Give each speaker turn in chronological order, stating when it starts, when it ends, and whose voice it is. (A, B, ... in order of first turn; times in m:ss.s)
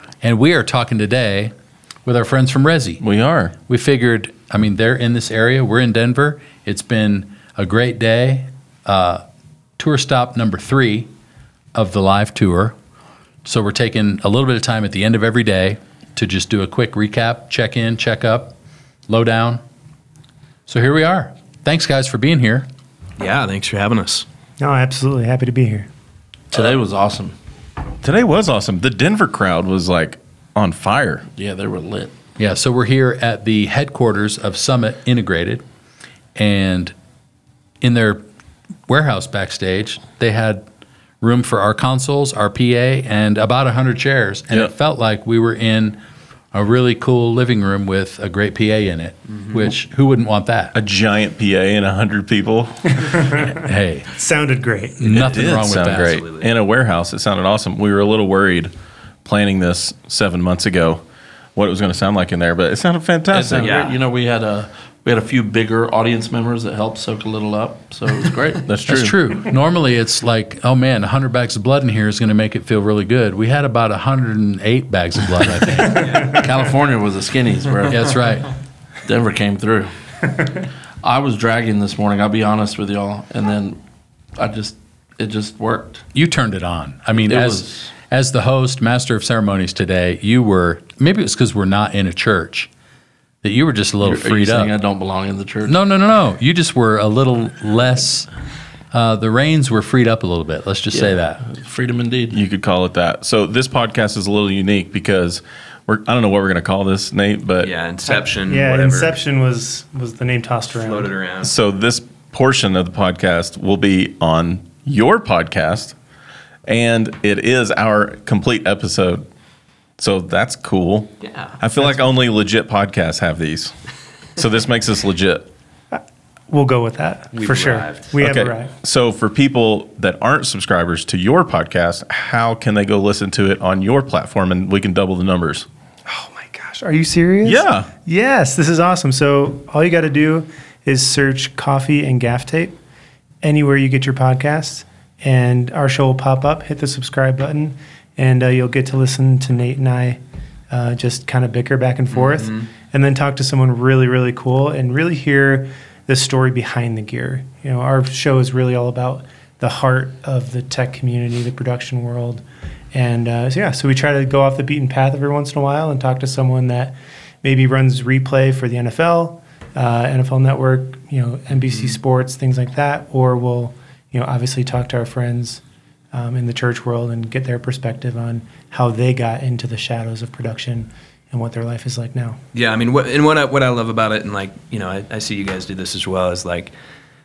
0:00.2-0:01.5 A
0:02.0-0:03.0 A
0:03.0-0:03.6 B
0:03.6-0:09.2 A
0:09.8-0:11.1 A
0:11.8-0:12.8 A
0:13.4-0:18.6 A
0:19.1-0:19.6 A
0:20.7-0:22.7 A
0:23.2-0:24.3 C
0:24.6-0:25.9 D
0:26.5-0:27.4 E
0:28.0-0:31.3 B
0:31.3-0:32.1 E
0:32.4-0:35.6 A
0:36.4-0:36.9 A
0:37.8-0:38.2 A
0:38.9-0:40.6 A
0:41.2-0:46.0 A
0:46.5-0:50.7 A
0:50.7-0:53.3 B
0:53.1-0:53.5 D
0:53.6-0:54.1 A
0:54.1-0:55.1 D
0:55.0-0:56.2 A
0:55.0-0:58.7 B
0:56.0-0:56.5 C
0:59.2-1:01.0 B
1:01.6-1:03.7 B
1:03.3-1:08.7 E
1:03.5-1:04.0 C
1:08.6-1:09.2 B
1:08.9-1:16.2 A
1:16.0-1:16.4 C
1:16.2-1:18.2 E
1:17.9-1:18.5 A
1:19.1-1:19.9 E
1:21.0-1:23.8 E
1:24.4-1:26.0 E
1:26.1-1:32.7 A
1:27.3-1:27.9 E
1:33.4-1:34.7 A
1:34.0-1:35.8 E
1:35.6-1:38.3 A
1:38.9-1:41.4 A
1:40.9-1:42.4 E
1:42.3-1:47.7 B
1:47.6-1:49.2 C
1:48.1-1:51.1 D
1:50.7-1:51.5 C
1:51.4-1:56.0 B
1:56.7-1:59.2 B
2:00.0-2:03.7 B
2:01.2-2:01.6 C
2:04.4-2:05.5 B
2:06.5-2:08.7 D
2:07.3-2:08.1 C
2:08.2-2:15.7 B
2:16.1-2:22.8 D
2:17.4-2:17.9 B
2:23.4-2:30.2 D
2:30.7-2:55.6 D
2:32.1-2:32.7 C
2:51.6-2:52.0 C
2:56.1-3:02.4 D
3:02.5-3:06.7 C